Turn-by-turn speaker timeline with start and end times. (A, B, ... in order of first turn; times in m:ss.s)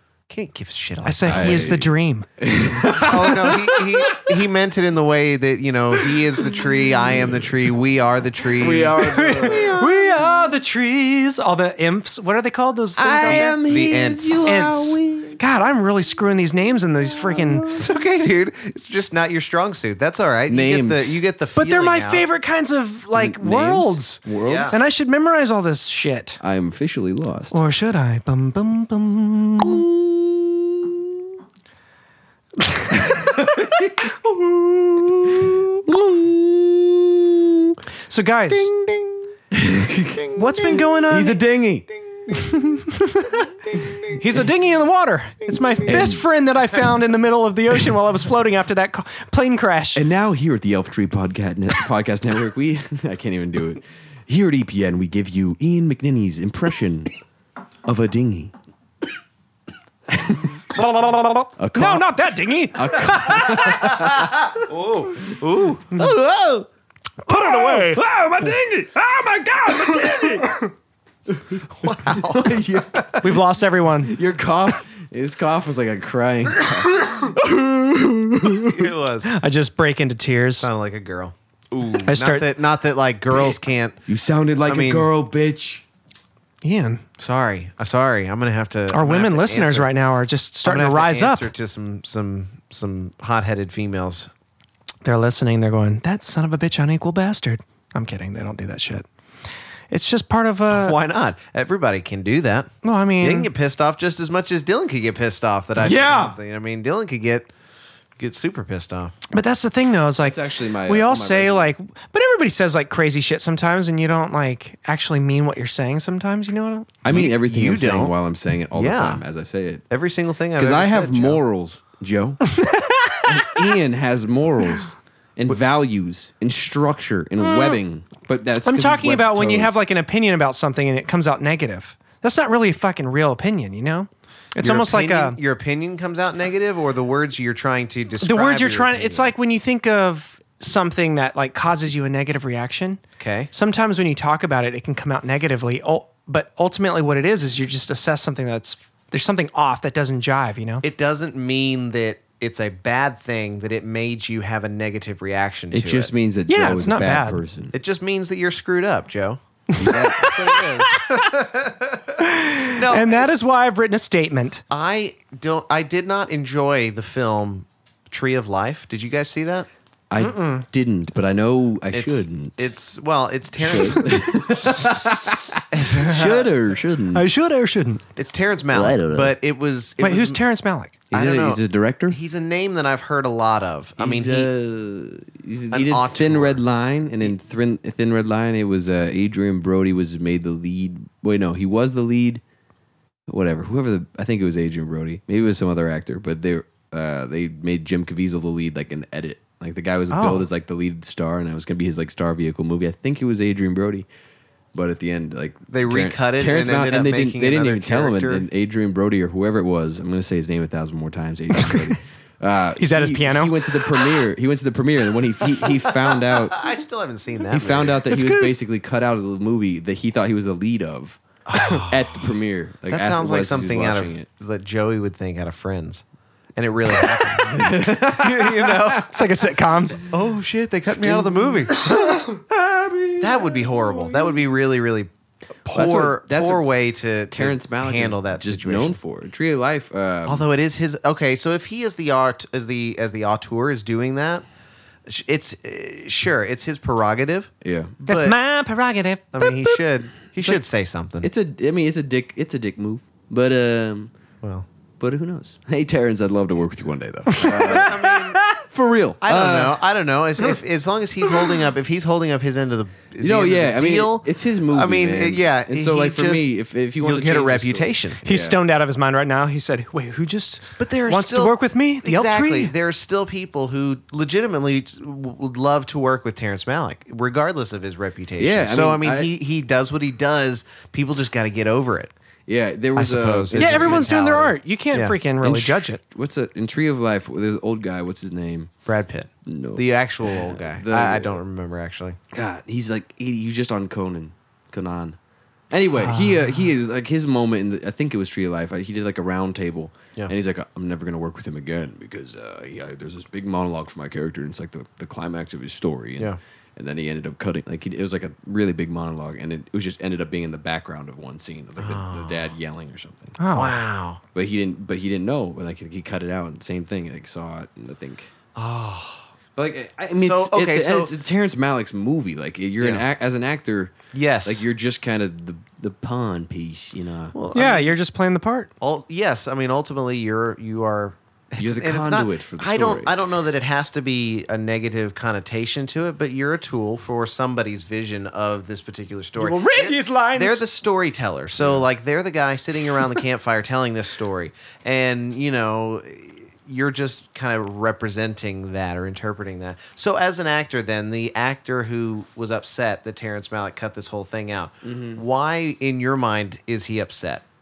0:00.3-0:01.7 A
0:01.0-0:02.3 B
0:01.2-0:03.8 C
0:02.9-0:10.0 A
0:08.5-0:09.9 C
0:09.0-0:13.6 B
0:13.0-0:15.4 C
0:13.2-0:14.5 A
0:14.4-0:17.7 B
0:17.7-0:22.2 A
0:20.5-0:21.2 C
0:21.6-0:26.4 B
0:23.1-0:24.8 C
0:24.4-0:24.8 A
0:26.4-0:27.6 C
0:27.5-0:29.8 B
0:30.0-0:30.9 C
0:32.6-0:33.3 B
0:33.0-0:34.4 C
0:35.2-0:37.8 C
0:38.1-0:38.7 B
0:39.5-0:41.9 C
0:40.3-0:41.4 B
0:42.3-0:43.5 B
0:44.1-0:50.0 B
0:45.8-0:46.2 C
0:49.9-0:57.1 C
0:57.8-0:58.5 C
1:00.7-1:04.0 B
1:01.6-1:04.6 C
1:04.3-1:05.8 A
1:05.1-1:05.3 C
1:05.9-1:06.7 C
1:07.2-1:08.0 B
1:07.3-1:10.6 C
1:11.3-1:13.2 C
1:11.7-1:13.1 A
1:13.2-1:14.2 B
1:14.0-1:18.8 C
1:18.5-1:19.3 A
1:19.2-1:20.7 B
1:20.6-1:24.0 A
1:22.0-1:22.5 B
1:24.1-1:25.8 C
1:24.6-1:25.1 A
1:26.6-1:27.0 B
1:27.2-1:29.9 A
1:28.9-1:31.5 B
1:30.6-1:34.3 A
1:35.0-1:39.0 B
1:39.9-1:41.0 B
1:40.7-1:47.5 A
1:42.8-1:43.5 B
1:45.8-1:46.4 C
1:48.2-1:49.1 A
1:49.3-1:57.0 B
1:50.2-1:51.7 C
1:57.0-1:59.8 C
1:57.0-1:58.1 A
1:58.7-1:59.2 A
1:59.9-2:01.4 A
2:00.6-2:02.6 C
2:02.6-2:03.2 B
2:03.2-2:09.8 C
2:07.4-2:07.8 B
2:08.6-2:15.4 B
2:14.6-2:19.3 A
2:18.2-2:30.8 B
2:23.2-2:23.5 A
2:30.8-2:36.1 A
2:35.7-2:37.7 C
2:36.5-2:37.4 B
2:37.7-2:43.3 A
2:39.7-2:41.4 B
2:39.8-2:40.4 C
2:42.2-2:44.6 B
2:44.7-2:49.7 A
2:50.1-2:52.6 C
2:50.2-2:50.6 B
2:51.9-2:54.7 A
2:53.6-2:57.2 C
2:55.7-2:56.5 A
2:57.1-2:58.0 B
2:58.1-3:00.4 A
2:58.7-2:59.3 C
3:00.0-3:01.0 B
3:01.1-3:02.2 C
3:01.1-3:04.5 A
3:04.0-3:12.4 C
3:05.7-3:06.6 A
3:13.3-3:24.0 C
3:20.1-3:20.5 B
3:24.7-3:36.6 C
3:25.7-3:28.5 A
3:31.6-3:31.9 B
3:32.8-3:34.1 B
3:35.9-3:38.1 A
3:37.5-3:44.2 C
3:38.1-3:38.5 B
3:41.4-3:42.3 A
3:42.9-3:46.0 A
3:46.6-3:49.1 A
3:47.5-3:49.1 C
3:49.0-3:50.0 B
3:50.1-3:52.0 A
3:51.0-3:53.7 C
3:53.2-3:55.1 A
3:55.6-3:59.0 A
3:55.7-3:56.7 C
3:57.3-4:00.4 C
4:00.2-4:04.4 A
4:05.0-4:08.4 A
4:07.6-4:07.9 C
4:08.1-4:09.8 B
4:09.3-4:11.3 A
4:11.2-4:14.1 C
4:14.4-4:14.7 A
4:15.0-4:18.0 C
4:17.3-4:18.6 B
4:17.4-4:18.4 A
4:18.6-4:19.8 C
4:19.2-4:28.2 A
4:23.2-4:28.6 C
4:28.2-4:32.7 B
4:30.8-4:42.1 A
4:38.4-4:39.3 C
4:42.5-4:44.1 C
4:42.9-4:45.2 A
4:43.6-4:46.0 B
4:45.4-4:48.7 C
4:48.8-4:52.2 A
4:49.4-4:51.4 C
4:52.3-4:55.2 C
4:55.7-5:13.4 C
4:56.0-4:56.6 B
5:11.8-5:12.5 A
5:13.4-5:13.8 B
5:13.5-5:14.2 A
5:14.3-5:18.3 C
5:18.5-5:19.2 A
5:19.6-5:27.3 C
5:20.2-5:21.1 A
5:24.1-5:24.6 A
5:27.3-5:27.9 A
5:27.5-5:28.7 B
5:28.8-5:57.4 A
5:31.6-5:33.1 C
5:39.4-5:40.6 B
5:41.6-5:41.8 C
5:54.8-5:55.2 C